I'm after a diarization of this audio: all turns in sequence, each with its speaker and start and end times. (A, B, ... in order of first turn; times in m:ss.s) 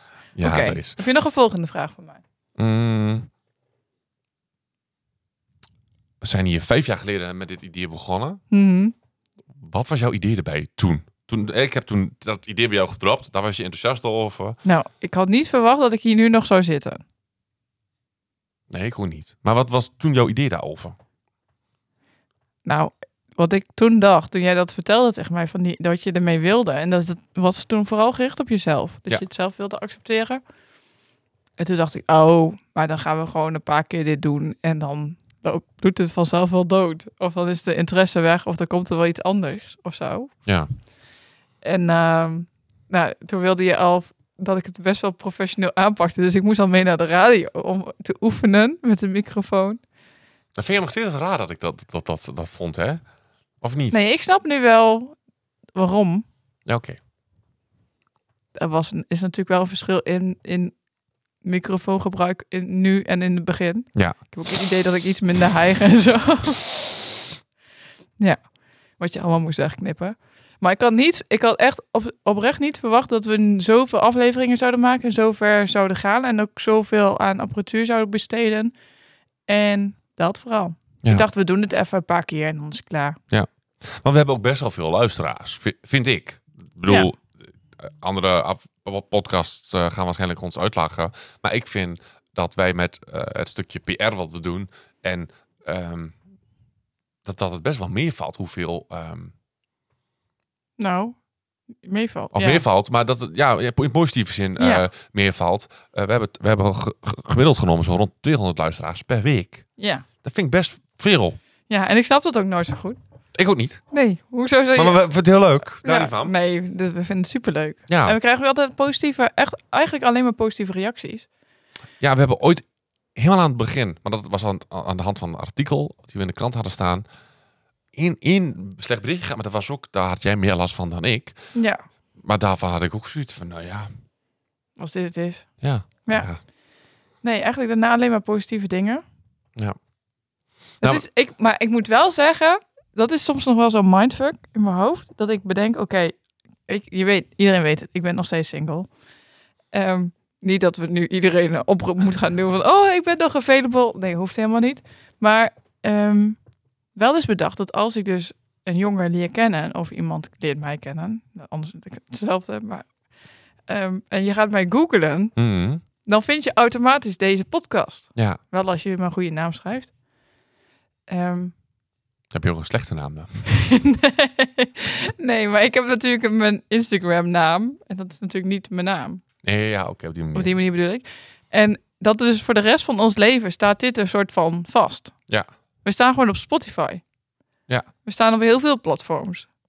0:00.3-0:01.0 A
0:00.4-0:02.2 B
0:02.6-0:03.3 A
0:06.2-0:08.4 A
0:08.5-0:08.9 B
0:09.6-0:14.6 A
0:14.6-0:17.0 B
0:18.7-0:21.0 A
0:22.6-0:30.4 B
0:31.6-0:40.3 B
0:41.6-0:49.8 B
0:50.5-0:53.0 A
0:53.6-0:54.0 A
0:53.9-0:55.2 B
0:55.7-0:56.2 B
0:56.6-0:57.0 A
0:58.5-1:00.7 B
1:01.4-1:06.8 B
1:08.2-1:18.7 B
1:19.5-1:23.2 B
1:23.3-1:36.2 A
1:37.2-1:39.3 A
1:40.8-1:41.2 B
1:41.7-1:42.6 B
1:42.3-1:49.6 A
1:44.6-1:44.8 B
1:49.8-1:50.0 B
1:50.2-1:51.4 A
1:51.7-1:53.0 B
1:53.3-1:53.8 A
1:53.9-1:55.0 B
1:54.7-1:56.3 A
1:55.8-2:01.3 B
1:57.9-1:58.2 A
2:02.0-2:07.0 A
2:07.9-2:11.4 A
2:11.5-2:11.8 B
2:12.2-2:13.9 A
2:14.8-2:16.3 B
2:15.6-2:16.4 A
2:17.2-2:19.0 B
2:20.8-2:28.9 B
2:29.7-2:36.4 B
2:36.9-2:42.9 B
2:43.7-2:45.3 B
2:45.4-2:45.8 A
2:46.0-2:49.9 B
2:48.1-2:48.4 A
2:51.1-2:51.5 B
2:52.3-2:53.4 A
2:53.5-2:59.2 B
2:59.4-3:00.5 A
3:00.3-3:05.2 B
3:05.8-3:07.0 B
3:08.0-3:09.5 B